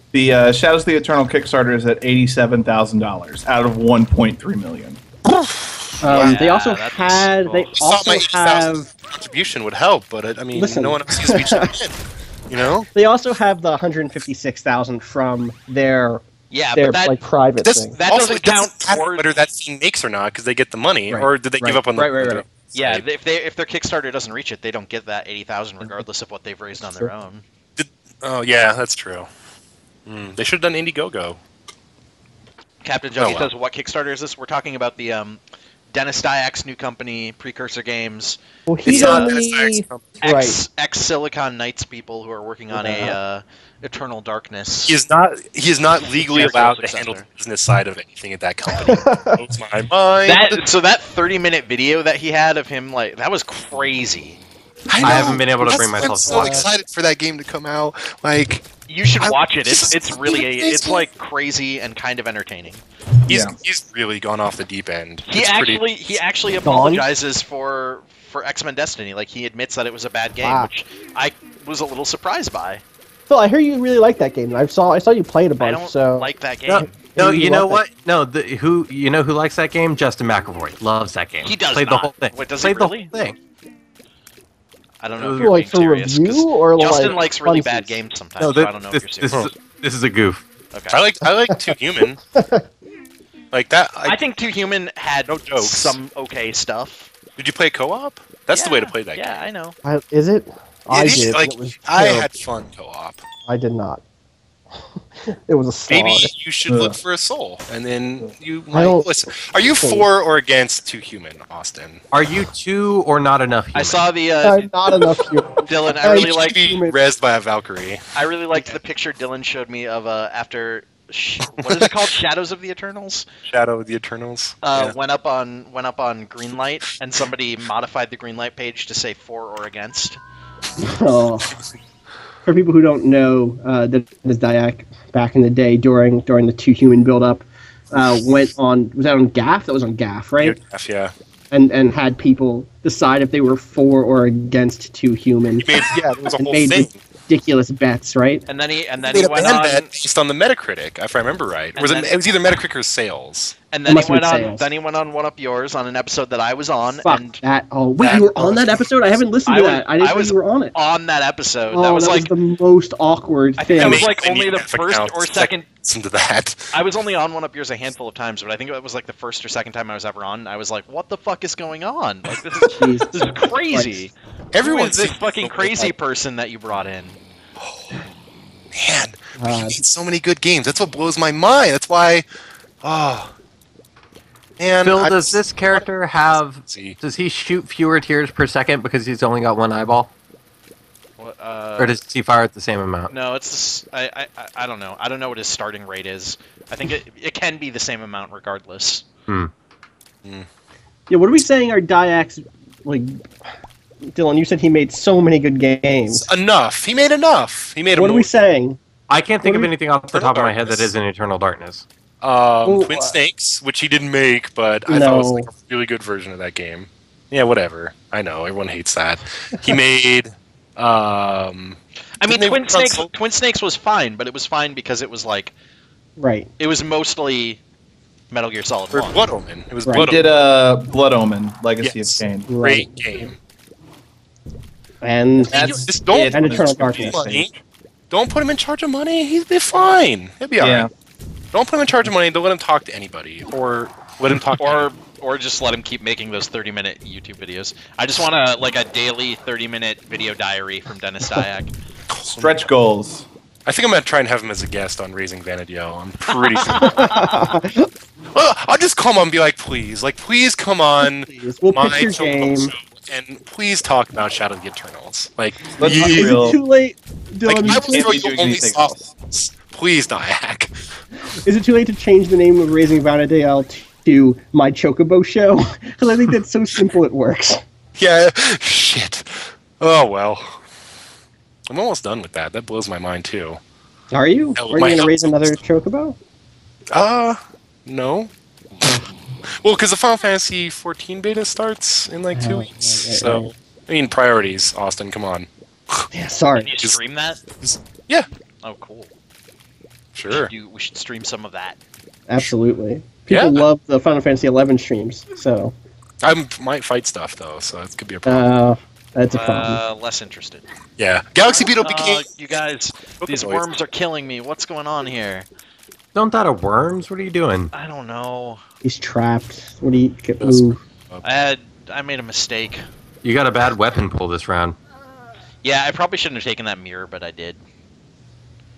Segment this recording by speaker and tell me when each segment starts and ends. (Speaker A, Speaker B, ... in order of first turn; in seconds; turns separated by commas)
Speaker A: 0.1-5.0, Speaker B: 5.3-6.4, Speaker C: 6.0-8.9, Speaker D: 6.0-7.7, Speaker B: 7.8-12.0, Speaker C: 10.6-11.7, Speaker B: 12.5-12.9, Speaker C: 12.9-18.0, Speaker D: 16.5-17.2, Speaker B: 17.6-23.1, Speaker D: 17.9-19.3, Speaker C: 21.1-22.4, Speaker D: 22.7-27.4, Speaker B: 27.8-29.3, Speaker B: 30.1-31.4, Speaker D: 32.8-35.4, Speaker B: 33.2-33.5, Speaker D: 35.9-39.3, Speaker C: 38.7-40.6, Speaker B: 38.9-40.2, Speaker D: 40.2-45.0, Speaker C: 42.7-43.2, Speaker B: 44.9-50.6, Speaker D: 46.1-47.2, Speaker C: 48.8-49.5, Speaker D: 50.2-54.4, Speaker B: 54.9-58.7, Speaker E: 55.0-56.7, Speaker C: 55.0-56.7, Speaker D: 58.9-62.8, Speaker B: 59.2-61.0, Speaker B: 63.3-65.8, Speaker A: 63.3-63.6, Speaker D: 65.3-72.8, Speaker C: 66.6-67.0, Speaker C: 70.4-70.7, Speaker C: 73.3-77.8, Speaker D: 75.6-76.9, Speaker E: 76.7-83.4, Speaker D: 81.4-83.1, Speaker D: 85.0-89.4, Speaker E: 85.2-85.6, Speaker C: 85.4-88.0, Speaker E: 88.4-90.5, Speaker D: 90.7-91.0, Speaker B: 90.9-92.2, Speaker C: 92.3-92.7, Speaker B: 93.5-94.2, Speaker D: 94.0-97.1, Speaker B: 95.3-96.0, Speaker B: 97.4-99.3, Speaker D: 98.5-99.8, Speaker C: 99.8-102.3, Speaker B: 100.9-103.2, Speaker C: 103.5-104.0, Speaker C: 105.5-106.3, Speaker B: 105.9-112.0, Speaker A: 106.7-107.0, Speaker C: 108.7-110.1, Speaker E: 112.1-114.0, Speaker D: 113.8-114.7, Speaker C: 114.4-117.0, Speaker D: 115.7-116.6, Speaker B: 116.1-118.0, Speaker D: 118.2-123.3, Speaker C: 118.5-118.8, Speaker B: 121.6-122.0, Speaker B: 123.5-125.0, Speaker D: 124.6-130.2, Speaker C: 130.8-131.6, Speaker C: 132.4-140.6, Speaker B: 140.4-141.1, Speaker C: 141.5-145.9, Speaker B: 145.6-147.1, Speaker C: 146.4-148.4, Speaker D: 148.5-149.9, Speaker B: 149.0-153.6, Speaker D: 151.8-152.3, Speaker D: 153.7-157.4, Speaker C: 153.9-154.7, Speaker C: 157.0-160.8, Speaker B: 158.0-158.8, Speaker D: 159.4-162.3, Speaker C: 161.7-164.1, Speaker D: 163.6-165.7, Speaker B: 163.8-166.8, Speaker D: 166.7-177.2, Speaker C: 172.7-174.0, Speaker B: 174.5-175.8, Speaker B: 177.6-177.9, Speaker B: 178.7-182.3, Speaker C: 179.4-179.8, Speaker B: 182.8-183.3, Speaker B: 184.6-185.9, Speaker E: 184.8-190.1, Speaker B: 186.6-187.0, Speaker D: 191.2-192.0, Speaker E: 191.8-193.1, Speaker D: 193.1-199.1, Speaker C: 201.1-203.2, Speaker C: 204.1-206.3, Speaker B: 206.1-208.3, Speaker C: 207.9-208.8, Speaker E: 209.1-211.8, Speaker C: 209.4-209.7, Speaker B: 210.1-210.9, Speaker B: 212.2-223.1, Speaker C: 212.7-213.2, Speaker C: 214.9-215.5, Speaker D: 222.2-225.5, Speaker C: 226.2-226.5, Speaker D: 226.6-227.6, Speaker D: 228.3-229.2, Speaker B: 228.9-230.2, Speaker A: 229.9-232.5, Speaker B: 231.8-233.4, Speaker C: 232.5-233.3, Speaker C: 235.0-237.5, Speaker A: 235.5-237.4, Speaker B: 235.5-237.5, Speaker B: 238.1-240.9, Speaker A: 240.6-240.9, Speaker B: 241.5-244.9, Speaker D: 244.6-251.7, Speaker B: 252.1-252.6, Speaker A: 252.3-253.3, Speaker B: 253.7-257.2, Speaker D: 256.3-257.4, Speaker C: 256.8-257.9, Speaker B: 258.3-266.4, Speaker C: 261.3-262.7, Speaker A: 265.8-266.6, Speaker C: 265.8-268.8, Speaker B: 267.5-270.8, Speaker A: 267.6-269.0, Speaker C: 271.4-277.6, Speaker B: 278.0-280.6, Speaker B: 281.7-283.6, Speaker C: 284.1-286.2, Speaker B: 284.6-285.6, Speaker B: 286.9-288.3, Speaker B: 289.6-296.1, Speaker C: 292.3-293.5, Speaker C: 296.1-296.7, Speaker D: 296.6-297.4, Speaker B: 297.6-298.3, Speaker D: 298.6-299.1, Speaker B: 300.1-300.5, Speaker D: 300.3-301.8, Speaker C: 302.3-305.7, Speaker B: 303.3-303.6, Speaker B: 306.2-308.5, Speaker C: 308.2-309.8, Speaker D: 309.3-310.7, Speaker B: 311.0-312.3, Speaker D: 311.8-315.5, Speaker B: 313.2-313.7, Speaker E: 316.1-317.7, Speaker D: 317.7-318.6, Speaker C: 318.8-320.8, Speaker B: 320.4-321.2, Speaker D: 321.2-322.8, Speaker E: 323.2-324.8, Speaker D: 325.6-327.6